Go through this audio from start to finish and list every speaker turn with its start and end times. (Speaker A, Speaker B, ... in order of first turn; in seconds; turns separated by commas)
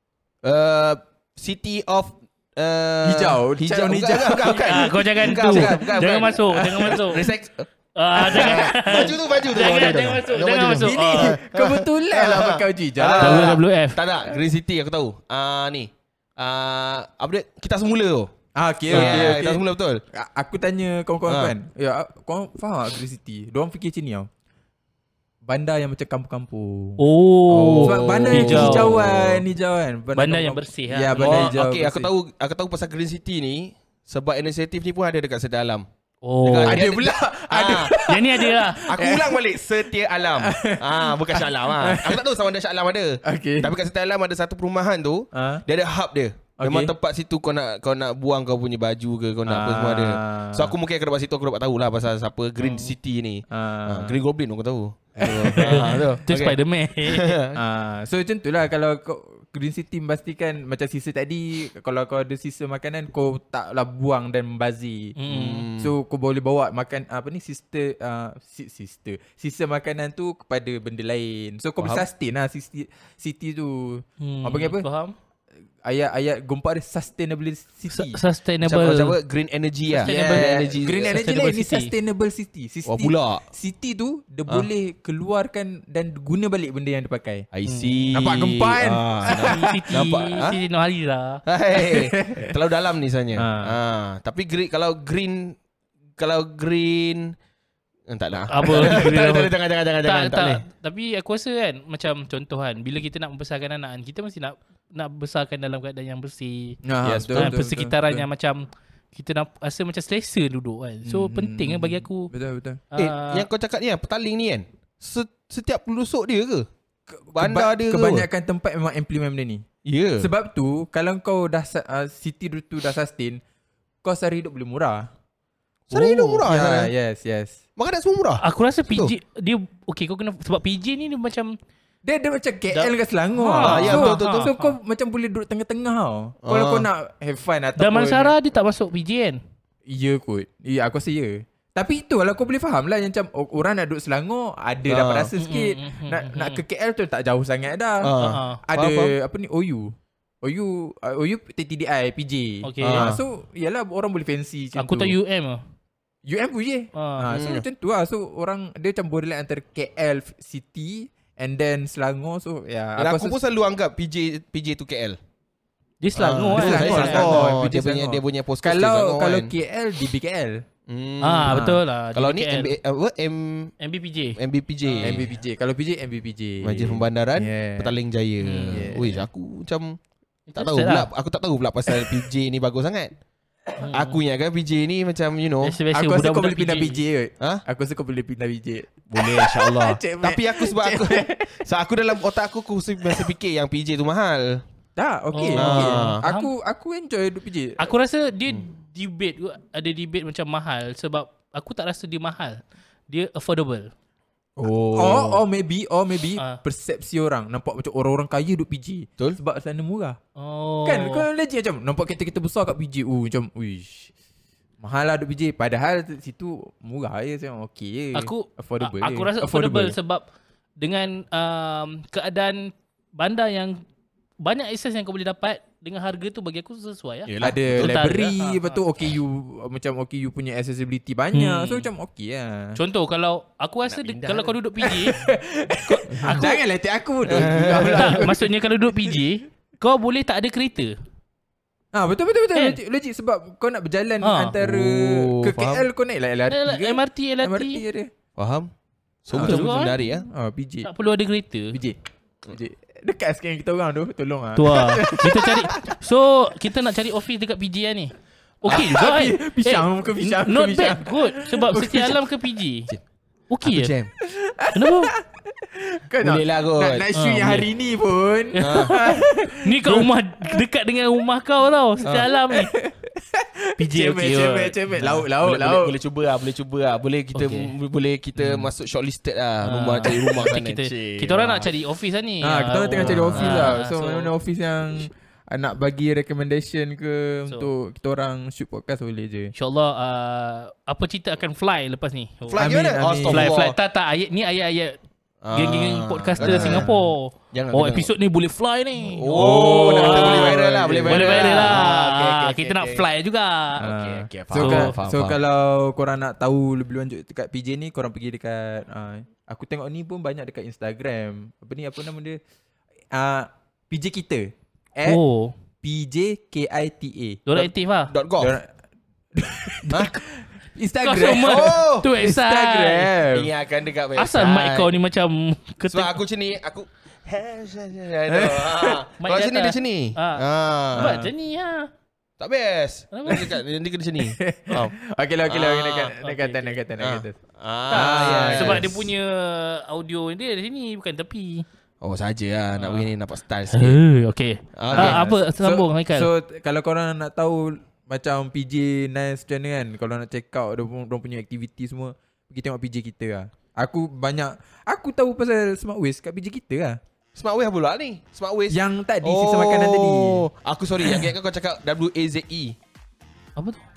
Speaker A: 0.4-18.3, Speaker B: 3.0-5.8, Speaker C: 4.5-7.3, Speaker C: 8.0-11.3, Speaker B: 8.3-8.6, Speaker B: 10.7-13.6, Speaker C: 13.2-14.0, Speaker B: 18.6-24.3, Speaker A: 18.9-20.0, Speaker C: 18.9-19.4, Speaker A: 21.3-21.5, Speaker B: 25.5-27.0, Speaker C: 27.0-29.1, Speaker A: 27.5-29.3, Speaker B: 27.8-32.1, Speaker C: 30.1-31.6, Speaker A: 31.2-35.9, Speaker C: 36.2-36.8, Speaker A: 36.4-38.0, Speaker B: 36.6-39.4, Speaker C: 38.0-38.9, Speaker A: 38.9-57.6, Speaker B: 40.4-42.2, Speaker B: 43.2-43.7, Speaker B: 45.3-45.6, Speaker B: 46.6-46.9, Speaker B: 49.5-50.7, Speaker C: 52.6-52.9, Speaker B: 53.5-54.2, Speaker B: 55.2-56.0, Speaker C: 55.5-57.4, Speaker B: 57.6-65.2, Speaker C: 65.2-65.7, Speaker A: 65.3-65.9, Speaker B: 65.8-74.9, Speaker A: 71.8-72.0, Speaker C: 74.2-75.2, Speaker B: 75.8-78.2, Speaker C: 77.9-79.2, Speaker A: 78.6-81.2, Speaker C: 79.9-81.9, Speaker B: 80.0-87.5, Speaker A: 82.9-83.4, Speaker A: 87.5-90.6, Speaker C: 87.7-88.1, Speaker B: 88.1-90.2, Speaker C: 89.5-91.4, Speaker A: 91.5-95.6, Speaker B: 91.8-92.5, Speaker B: 93.4-93.8, Speaker A: 96.2-97.4, Speaker A: 98.1-100.6, Speaker C: 98.5-106.8, Speaker B: 106.8-108.3, Speaker A: 107.0-107.5, Speaker C: 107.3-112.3, Speaker B: 111.0-112.8, Speaker C: 112.9-113.5, Speaker A: 113.0-116.7, Speaker B: 117.1-119.7, Speaker A: 117.3-118.3, Speaker A: 119.8-120.3, Speaker B: 120.2-123.4, Speaker B: 124.0-125.1, Speaker A: 125.9-126.9, Speaker B: 125.9-127.6, Speaker A: 127.8-129.2, Speaker C: 128.4-131.6, Speaker B: 132.1-138.3, Speaker C: 132.7-134.8, Speaker A: 133.6-134.5, Speaker A: 136.4-136.9, Speaker C: 137.8-139.4, Speaker B: 139.9-155.2, Speaker A: 144.9-145.3, Speaker C: 145.4-146.6, Speaker A: 148.0-149.1, Speaker C: 148.2-148.6, Speaker C: 152.6-153.1, Speaker A: 152.8-153.2, Speaker C: 154.8-155.6, Speaker B: 156.3-163.4, Speaker C: 156.9-157.3, Speaker A: 157.3-157.6, Speaker A: 163.0-165.2, Speaker C: 166.0-167.5, Speaker A: 166.2-169.5, Speaker B: 166.5-170.6, Speaker A: 170.9-173.7, Speaker C: 171.2-172.8, Speaker B: 171.5-171.8, Speaker C: 173.8-175.3, Speaker A: 174.4-175.2, Speaker B: 175.0-177.9, Speaker A: 176.6-180.0, Speaker C: 178.4-179.2, Speaker B: 178.7-179.1, Speaker C: 180.5-181.1, Speaker A: 180.6-183.1, Speaker C: 183.8-184.2, Speaker A: 183.9-185.8, Speaker C: 185.6-187.0, Speaker B: 185.9-191.6, Speaker A: 189.1-194.6, Speaker B: 195.0-197.9, Speaker C: 195.3-196.5, Speaker A: 195.6-196.2, Speaker C: 197.8-203.9, Speaker A: 204.6-205.4, Speaker B: 205.0-210.2, Speaker C: 210.4-211.3, Speaker B: 210.8-214.1, Speaker B: 214.8-220.0, Speaker C: 218.2-220.2, Speaker C: 220.8-223.8, Speaker C: 224.4-228.8, Speaker A: 227.3-228.0, Speaker B: 227.4-232.8, Speaker C: 231.3-231.9, Speaker C: 232.8-235.3, Speaker A: 233.9-234.5, Speaker B: 234.8-239.2, Speaker C: 235.9-236.6, Speaker A: 236.1-236.4, Speaker A: 237.3-238.3, Speaker C: 237.4-240.9, Speaker B: 241.9-248.1, Speaker C: 242.5-242.8, Speaker C: 244.2-244.6, Speaker A: 244.6-245.9, Speaker C: 246.5-247.8, Speaker A: 248.4-248.7, Speaker A: 249.2-250.3, Speaker B: 249.3-250.9, Speaker C: 249.4-250.0, Speaker C: 250.8-251.8, Speaker B: 251.7-256.0, Speaker C: 254.6-262.9, Speaker B: 258.7-262.3, Speaker C: 263.5-263.9, Speaker A: 263.6-264.1, Speaker B: 264.2-270.6, Speaker C: 264.7-265.1, Speaker A: 266.2-267.1, Speaker C: 267.1-267.7, Speaker C: 268.6-272.7, Speaker A: 268.6-268.9, Speaker B: 272.5-275.9, Speaker C: 273.8-275.2, Speaker A: 275.4-281.7, Speaker C: 277.4-277.7, Speaker B: 278.4-278.7, Speaker C: 279.6-284.3, Speaker B: 282.4-289.5, Speaker A: 282.9-283.8, Speaker C: 289.6-292.7, Speaker A: 292.5-293.8, Speaker B: 292.6-293.6, Speaker C: 293.3-295.0, Speaker A: 295.4-296.9, Speaker C: 295.5-305.0, Speaker B: 296.4-297.1, Speaker A: 297.5-298.1, Speaker A: 299.0-303.1, Speaker B: 299.3-301.9, Speaker B: 303.8-312.4, Speaker A: 304.0-305.4, Speaker B: 313.1-315.2, Speaker C: 315.0-315.5, Speaker B: 315.8-317.7, Speaker C: 317.5-318.1, Speaker A: 318.1-318.6, Speaker B: 318.4-318.7, Speaker B: 319.3-323.5, Speaker C: 321.0-323.2, Speaker A: 321.4-322.1, Speaker A: 323.3-324.9, Speaker C: 324.2-326.2, Speaker A: 325.9-331.3, Speaker B: 328.3-329.0, Speaker C: 329.2-331.9, Speaker B: 331.0-331.3, Speaker A: 332.4-334.9, Speaker C: 333.1-333.6, Speaker B: 334.2-337.4, Speaker A: 335.5-336.1, Speaker C: 336.2-336.8, Speaker A: 337.0-338.9, Speaker B: 337.9-339.1, Speaker C: 337.9-341.7, Speaker A: 342.0-344.0, Speaker C: 342.8-343.1, Speaker C: 343.7-346.3, Speaker A: 344.8-345.2, Speaker B: 344.9-357.0, Speaker A: 357.4-362.8, Speaker B: 358.7-360.4, Speaker C: 363.6-363.8